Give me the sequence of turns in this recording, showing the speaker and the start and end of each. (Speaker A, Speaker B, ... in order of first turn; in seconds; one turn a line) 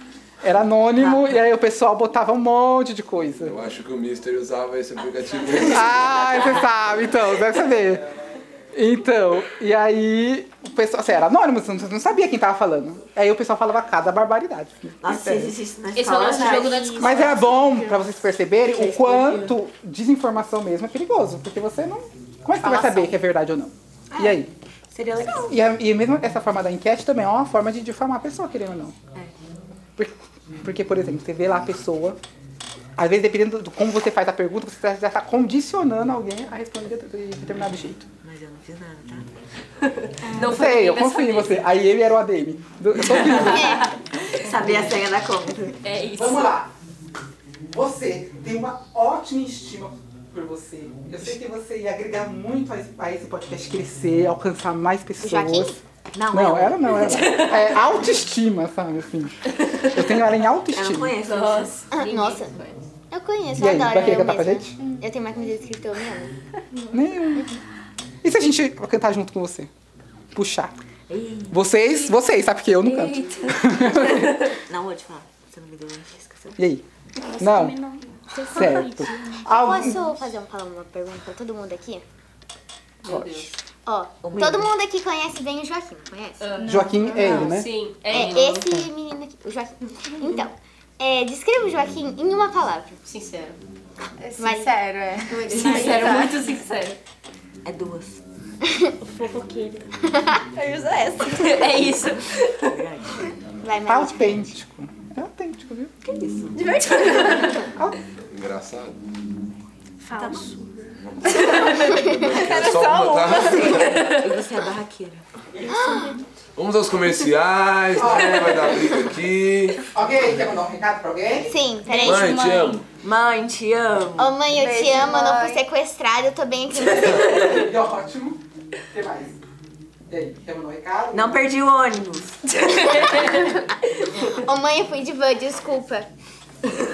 Speaker A: 0.4-3.6
Speaker B: 1.0-1.3
Speaker C: 3.4-6.5
Speaker A: 5.6-8.0
Speaker A: 8.7-15.6
Speaker B: 15.0-16.8
Speaker D: 15.9-17.3
Speaker E: 16.3-16.9
Speaker F: 16.6-18.1
Speaker A: 17.0-24.5
Speaker B: 18.7-19.6
Speaker E: 22.6-23.1
Speaker B: 24.1-25.6
Speaker A: 25.4-28.9
Speaker A: 30.0-32.2
Speaker A: 33.0-38.1
Speaker B: 38.2-39.3
Speaker F: 40.2-41.0
Speaker D: 40.2-41.7
Speaker A: 40.4-43.9
Speaker D: 43.2-43.5
Speaker B: 43.2-43.6
Speaker G: 43.3-43.9
Speaker B: 44.3-45.8
Speaker A: 44.6-44.9
Speaker D: 45.8-46.5
Speaker A: 46.1-46.7
Speaker A: 47.7-55.8
Speaker G: 55.2-57.0
Speaker B: 56.1-56.5
Speaker A: 56.3-59.4
Speaker D: 56.9-58.0
Speaker D: 59.6-60.2
Speaker A: 59.9-61.1
Speaker B: 60.7-62.0
Speaker D: 61.2-62.8
Speaker G: 61.9-62.5
Speaker G: 63.1-66.3
Speaker A: 63.5-64.8
Speaker A: 66.9-67.5
Speaker A: 68.2-69.7
Speaker A: 70.3-70.8
Speaker B: 71.1-71.6
Speaker A: 71.5-74.4
Speaker D: 72.8-74.4
Speaker B: 74.6-76.6
Speaker A: 76.6-76.8
Speaker F: 77.2-79.5
Speaker A: 77.4-77.8
Speaker A: 78.5-80.1
Speaker G: 79.5-82.0
Speaker D: 83.0-83.5
Speaker A: 83.1-83.5
Speaker G: 83.8-86.5
Speaker B: 84.2-84.7
Speaker D: 86.4-88.7
Speaker F: 86.6-87.0
Speaker A: 86.6-87.7
Speaker E: 87.0-87.4
Speaker G: 88.1-93.0
Speaker D: 93.1-93.6
Speaker E: 94.2-96.5
Speaker G: 94.4-94.7
Speaker D: 95.4-97.0
Speaker F: 95.5-96.5
Speaker B: 97.6-98.2
Speaker F: 99.0-100.0
Speaker D: 100.5-102.8
Speaker B: 101.4-101.7
Speaker B: 102.6-103.3
Speaker G: 103.6-104.5
Speaker A: 103.8-105.9
Speaker B: 106.0-107.3
Speaker D: 106.5-107.7
Speaker C: 108.3-109.0
Speaker F: 110.0-110.8
Speaker C: 111.1-114.0
Speaker D: 111.2-114.4
Speaker B: 113.4-115.2
Speaker F: 115.6-116.2
Speaker G: 115.7-116.2
Speaker C: 116.6-119.9
Speaker A: 118.0-118.8
Speaker A: 119.9-121.6
Speaker G: 121.5-122.4
Speaker F: 121.9-122.8
Speaker C: 122.0-122.8
Speaker B: 123.0-124.4
Speaker G: 124.2-127.6
Speaker E: 124.5-125.6
Speaker A: 127.0-129.4
Speaker A: 130.1-131.4
Speaker B: 131.1-133.1
Speaker D: 132.7-133.3
Speaker G: 133.0-133.3
Speaker G: 134.0-136.1